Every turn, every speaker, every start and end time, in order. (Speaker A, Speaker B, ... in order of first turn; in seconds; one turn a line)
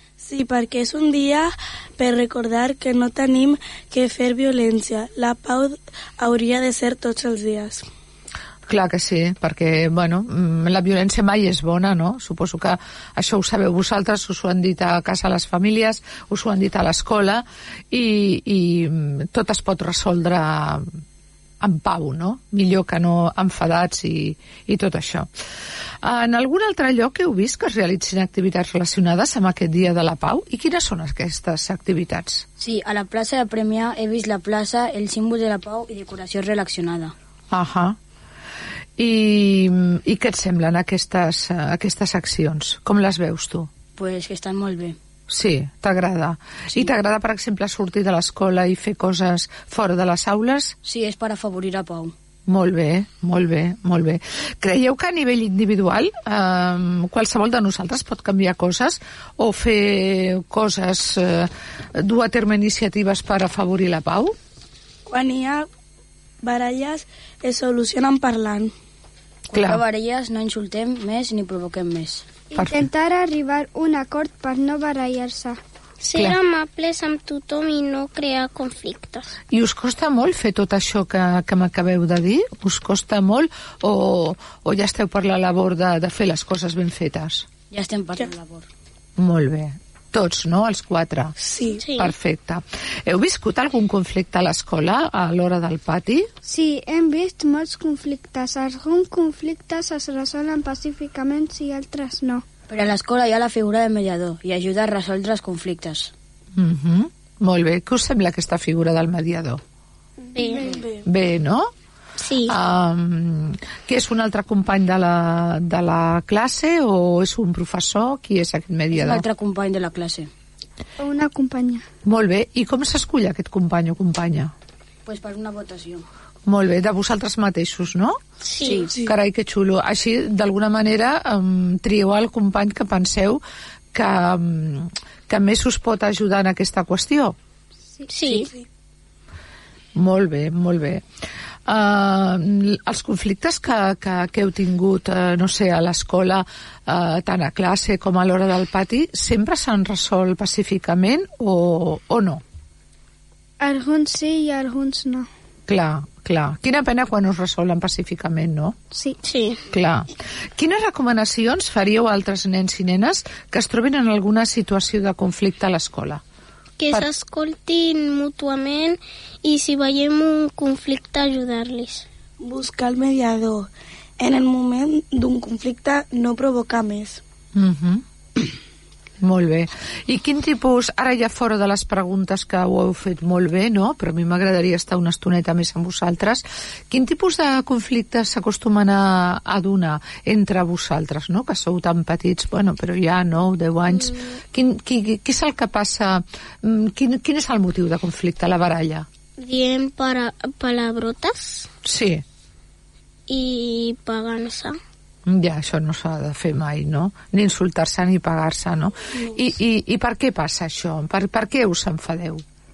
Speaker A: 0.2-7.8
Speaker B: 8.7-20.9
Speaker B: 21.6-25.3
Speaker B: 26.0-32.4
Speaker C: 32.6-37.1
Speaker B: 37.5-38.0
Speaker B: 39.0-43.7
Speaker C: 44.0-45.0
Speaker B: 45.3-50.8
Speaker C: 50.8-52.1
Speaker B: 52.5-64.3
Speaker A: 65.0-65.7
Speaker A: 66.4-68.7
Speaker B: 69.5-69.8
Speaker C: 69.5-72.2
Speaker D: 72.5-75.6
Speaker B: 72.5-72.8
Speaker E: 76.0-79.3
Speaker B: 79.5-87.5
Speaker C: 87.7-88.7
Speaker B: 89.2-91.3
Speaker A: 91.4-91.8
Speaker E: 91.8-92.1
Speaker B: 91.9-96.3
Speaker D: 96.4-102.4
Speaker C: 102.7-106.1
Speaker B: 106.5-109.6
Speaker E: 110.2-110.7
Speaker A: 110.5-111.0
Speaker B: 111.0-111.7
Speaker E: 112.2-112.5
Speaker B: 112.5-119.2
Speaker C: 118.9-120.3
Speaker D: 121.0-121.8
Speaker B: 122.0-124.5
Speaker C: 125.0-126.0
Speaker B: 126.5-128.2
Speaker E: 128.4-128.9
Speaker C: 128.6-129.0
Speaker B: 129.0-133.4
Speaker B: 133.9-137.3
Speaker E: 138.1-138.5
Speaker A: 138.4-138.7
Speaker B: 139.9-141.0
Speaker B: 141.7-152.4
Speaker D: 153.6-155.3
Speaker B: 155.7-158.7
Speaker E: 159.2-159.6
Speaker B: 159.7-166.2
Speaker E: 166.8-172.1
Speaker A: 172.4-177.2
Speaker B: 177.5-178.0
Speaker B: 179.2-199.1
Speaker E: 199.4-201.7
Speaker B: 201.8-202.2
Speaker E: 203.3-204.8
Speaker B: 205.2-212.4